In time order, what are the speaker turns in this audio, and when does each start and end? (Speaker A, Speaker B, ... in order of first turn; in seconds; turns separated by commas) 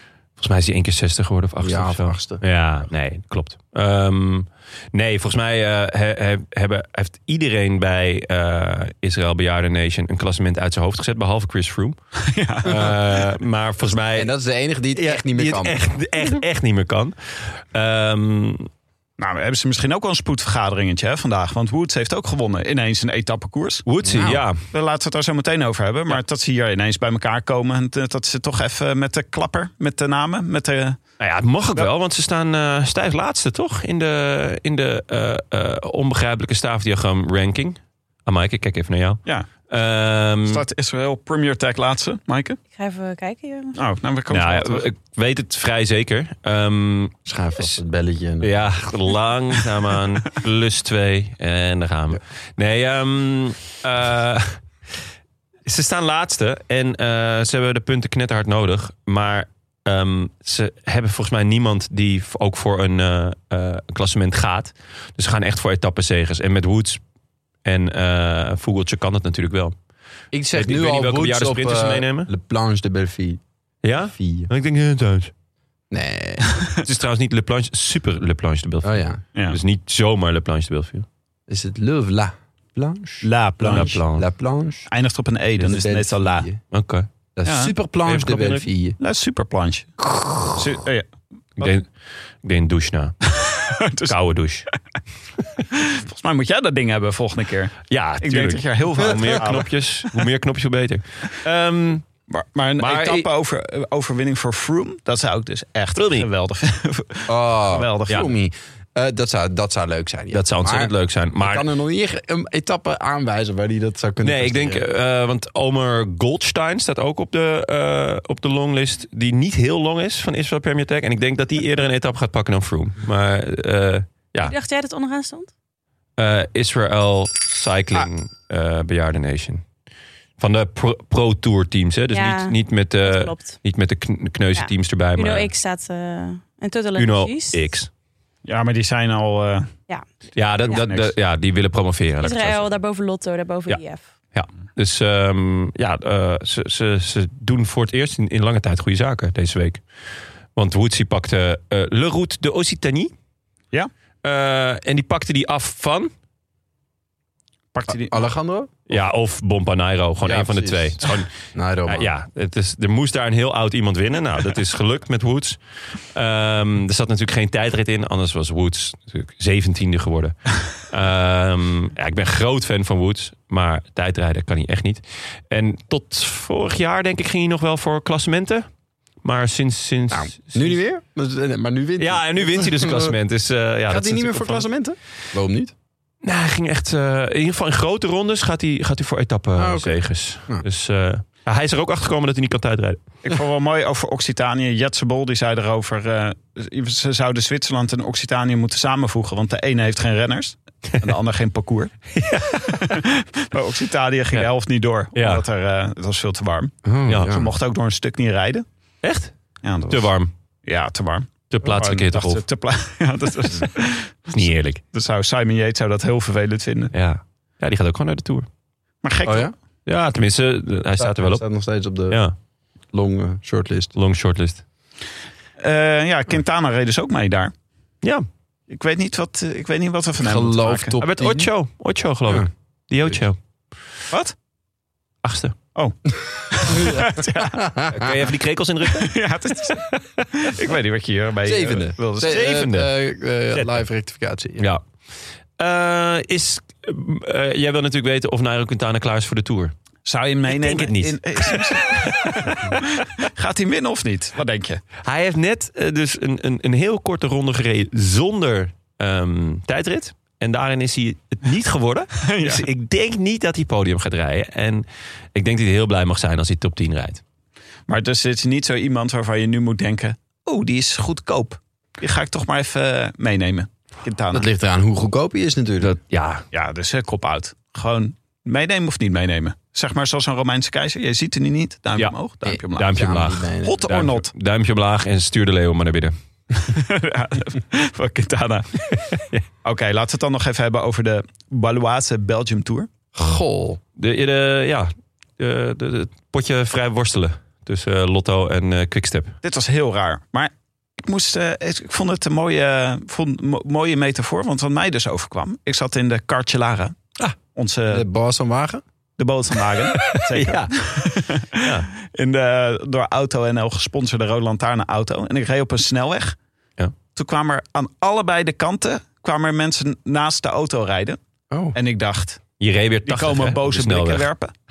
Speaker A: 0.4-12.0, Speaker B: 1.6-2.4, Speaker C: 12.2-13.0, Speaker A: 12.6-14.3, Speaker B: 14.2-15.8, Speaker A: 14.9-18.7, Speaker C: 19.2-23.9, Speaker A: 23.9-24.6, Speaker B: 24.0-24.4, Speaker C: 24.7-31.0, Speaker A: 31.2-40.6, Speaker C: 40.5-42.6, Speaker D: 42.8-43.8, Speaker C: 43.8-44.9, Speaker A: 44.3-47.6, Speaker B: 47.3-48.5, Speaker A: 48.4-54.6, Speaker A: 55.6-67.0, Speaker A: 67.7-69.8, Speaker B: 70.3-73.4, Speaker A: 70.5-72.3, Speaker A: 73.8-75.3, Speaker B: 74.1-74.5, Speaker B: 75.9-76.5, Speaker A: 76.8-81.1, Speaker B: 78.8-79.2, Speaker B: 81.5-84.9, Speaker C: 83.2-84.0, Speaker A: 83.6-84.3, Speaker C: 84.9-86.5, Speaker B: 85.6-86.6, Speaker A: 86.7-87.1, Speaker B: 87.4-89.0, Speaker C: 87.5-87.7, Speaker A: 88.0-88.7, Speaker C: 89.0-91.1, Speaker A: 90.1-90.5, Speaker A: 91.6-91.9, Speaker A: 92.4-93.2, Speaker C: 93.4-94.2, Speaker A: 94.1-94.7, Speaker C: 95.7-100.1, Speaker A: 97.9-102.1, Speaker C: 102.3-108.3, Speaker A: 102.8-103.3, Speaker A: 106.0-106.3, Speaker B: 107.3-114.8, Speaker A: 110.3-111.7, Speaker A: 114.2-124.5, Speaker D: 124.4-125.5, Speaker A: 126.2-129.6, Speaker A: 130.4-135.5, Speaker D: 132.1-133.6, Speaker D: 134.6-137.6, Speaker A: 137.0-137.9, Speaker C: 138.4-139.7, Speaker A: 140.3-142.7, Speaker C: 140.7-141.1, Speaker D: 142.2-144.0, Speaker A: 144.3-149.8, Speaker A: 150.6-153.1, Speaker A: 154.2-156.1, Speaker C: 157.7-158.2, Speaker B: 158.1-158.7, Speaker A: 158.9-161.3, Speaker B: 160.2-162.1, Speaker A: 161.9-165.6, Speaker A: 166.1-178.7, Speaker A: 179.2-180.8, Speaker B: 180.1-183.2, Speaker A: 182.0-184.7, Speaker B: 183.9-185.7, Speaker A: 186.2-193.0, Speaker B: 189.6-190.7, Speaker C: 193.2-201.9, Speaker A: 202.2-202.9, Speaker C: 202.7-206.7, Speaker A: 205.2-205.4, Speaker B: 206.8-207.5, Speaker A: 207.1-207.3, Speaker C: 207.3-208.7, Speaker A: 209.0-209.3, Speaker C: 209.6-210.1, Speaker A: 209.9-210.3, Speaker C: 210.7-216.9, Speaker A: 211.5-212.4, Speaker A: 214.3-214.8, Speaker A: 216.9-218.5, Speaker C: 219.0-219.5, Speaker B: 219.2-219.5, Speaker A: 219.9-221.4, Speaker B: 221.0-222.2, Speaker A: 222.1-222.3, Speaker B: 222.9-223.9, Speaker A: 223.9-224.6, Speaker C: 225.6-227.5, Speaker C: 228.7-230.9, Speaker B: 230.2-231.5, Speaker A: 231.0-233.4, Speaker A: 235.2-235.6, Speaker C: 235.8-237.7, Speaker B: 236.7-238.1, Speaker A: 237.9-239.1, Speaker C: 238.9-242.5, Speaker B: 241.4-244.6, Speaker A: 242.2-242.9, Speaker A: 245.6-249.7, Speaker C: 250.1-254.8, Speaker A: 250.5-252.8, Speaker A: 255.0-267.2, Speaker C: 262.2-262.6, Speaker C: 267.9-274.5, Speaker B: 274.3-276.0, Speaker A: 275.8-276.4, Speaker C: 276.5-283.0, Speaker B: 282.4-283.8, Speaker A: 282.7-286.1, Speaker C: 283.6-284.3, Speaker C: 286.5-288.8, Speaker A: 288.9-289.4, Speaker C: 289.6-292.9, Speaker B: 293.1-293.8, Speaker A: 294.0-299.4, Speaker C: 299.4-307.0, Speaker C: 307.5-308.1, Speaker B: 307.9-308.8, Speaker C: 309.2-316.4, Speaker A: 310.1-310.8, Speaker A: 311.6-311.9, Speaker C: 317.1-321.2, Speaker C: 321.8-322.4, Speaker A: 322.6-324.3, Speaker C: 323.1-324.5